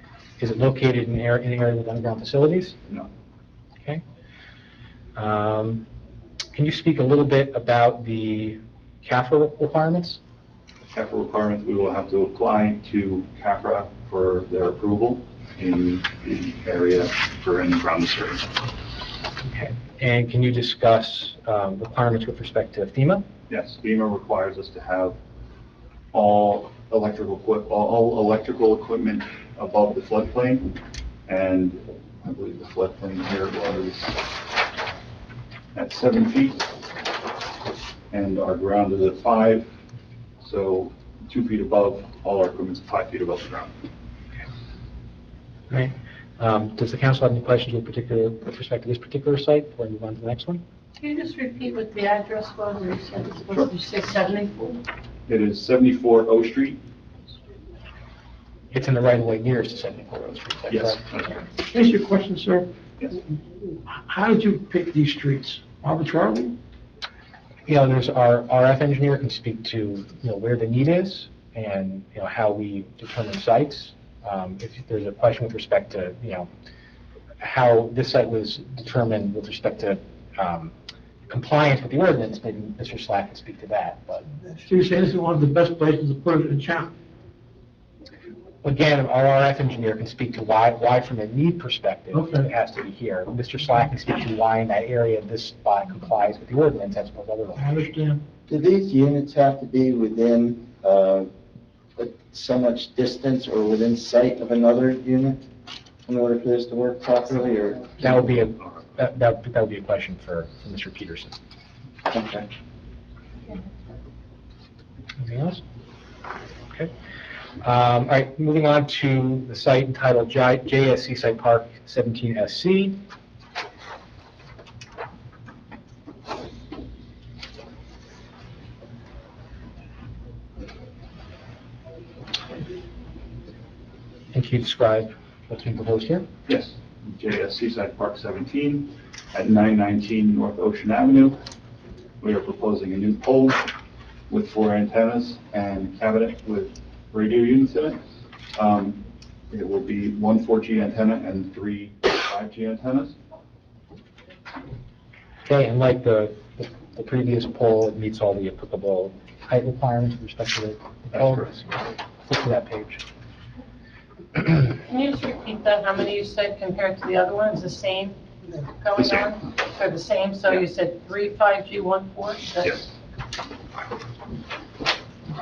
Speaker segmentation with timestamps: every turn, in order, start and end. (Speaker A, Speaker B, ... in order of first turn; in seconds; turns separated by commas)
Speaker A: 0.4-2.8, Speaker A: 5.1-5.8, Speaker A: 6.5-10.2, Speaker B: 10.9-18.5, Speaker A: 19.5-23.2, Speaker B: 23.5-25.2, Speaker B: 26.1-30.7, Speaker B: 31.3-34.3, Speaker B: 35.7-36.7, Speaker B: 38.1-39.7, Speaker B: 40.4-43.7, Speaker A: 45.7-50.6, Speaker C: 51.0-54.8, Speaker B: 55.3-56.8, Speaker A: 58.7-61.1, Speaker B: 60.7-61.5, Speaker D: 61.7-62.7, Speaker D: 63.9-66.5, Speaker A: 67.7-76.5, Speaker A: 77.4-80.7, Speaker A: 81.3-84.2, Speaker D: 84.6-86.9, Speaker A: 88.6-97.8, Speaker D: 92.1-92.5, Speaker D: 97.6-98.2, Speaker E: 98.5-101.3, Speaker E: 102.0-105.4, Speaker E: 106.0-108.3, Speaker A: 108.0-111.3, Speaker E: 112.0-112.5, Speaker A: 115.2-115.6, Speaker A: 117.6-123.0, Speaker A: 134.3-136.2, Speaker B: 136.5-141.4, Speaker B: 142.2-143.7, Speaker B: 144.3-148.0, Speaker B: 148.5-153.2, Speaker A: 155.4-163.0, Speaker B: 161.1-161.5, Speaker C: 164.8-172.9, Speaker B: 168.9-169.3